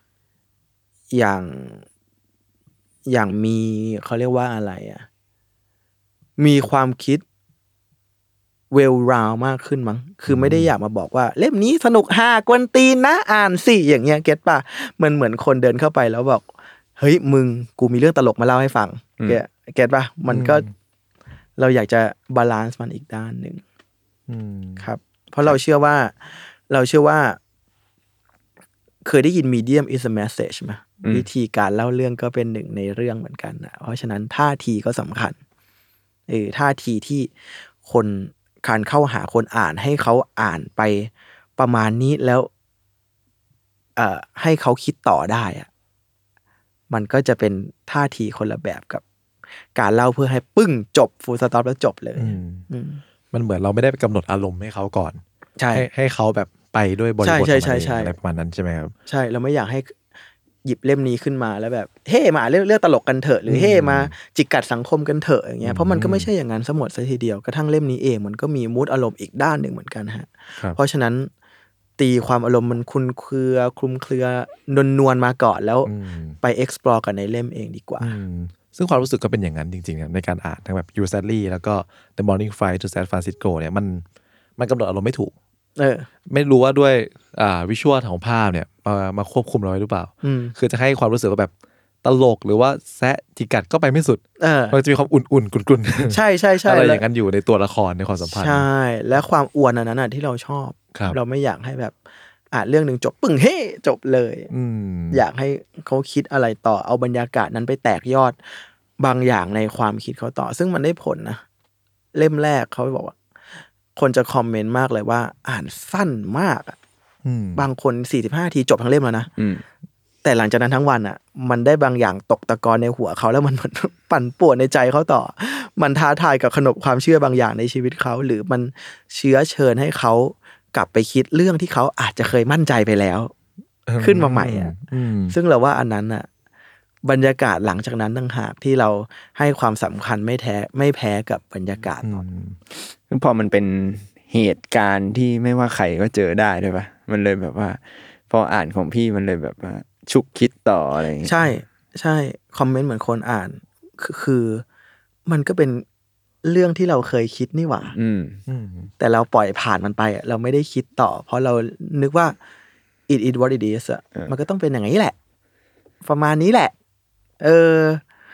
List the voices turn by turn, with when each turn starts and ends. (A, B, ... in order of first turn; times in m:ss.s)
0:01.1-0:01.8 A
0:03.1-0:05.0 A
0:06.4-0:07.2 A
0:08.7-0:16.4 A
0:10.3-0:10.7 B
0:17.0-0:20.7 A
0:20.3-0:20.7 B
0:21.6-0:23.6 A
0:24.3-0:24.9 B
0:24.8-0:26.2 A
0:26.7-0:27.4 A
0:29.0-0:35.4 A
0:36.3-0:37.3 A
0:37.8-0:42.5 A
0:44.0-0:45.7 A
0:46.9-0:49.0 A
0:49.8-0:53.0 A
0:52.2-0:52.6 B
0:53.3-0:55.2 B
0:55.6-0:55.9 A
0:55.7-0:58.9 B
0:57.2-0:58.1 A
0:59.1-0:59.9 A
1:00.6-1:11.3 A
1:03.5-1:04.1 B
1:05.6-1:06.3 B
1:12.0-1:18.1 A
1:15.9-1:16.4 B
1:18.0-1:24.0 B
1:24.6-1:25.3 B
1:25.8-1:26.1 A
1:26.3-1:31.5 B
1:30.2-1:30.6 A
1:32.0-1:38.7 B
1:34.4-1:34.8 A
1:36.1-1:37.0 A
1:38.3-1:41.9 A
1:42.5-1:44.5 A
1:44.5-1:45.2 B
1:45.1-1:48.4 A
1:49.0-1:51.4 A
1:52.1-1:53.2 A
1:54.0-1:56.8 A
1:57.2-1:57.7 B
1:57.6-1:59.3 A
1:59.4-1:59.6 C
2:00.2-2:13.3 A
2:13.9-2:15.4 B
2:14.0-2:14.8 A
2:15.3-2:16.3 A
2:17.0-2:22.2 A
2:22.0-2:22.6 B
2:23.1-2:31.3 C
2:31.2-2:34.6 A
2:35.3-2:35.8 A
2:36.4-2:37.9 A
2:37.9-2:38.4 C
2:38.5-2:38.9 B
2:39.0-2:42.4 A
2:43.1-2:45.1 A
2:46.0-2:46.7 A
2:47.4-2:48.0 A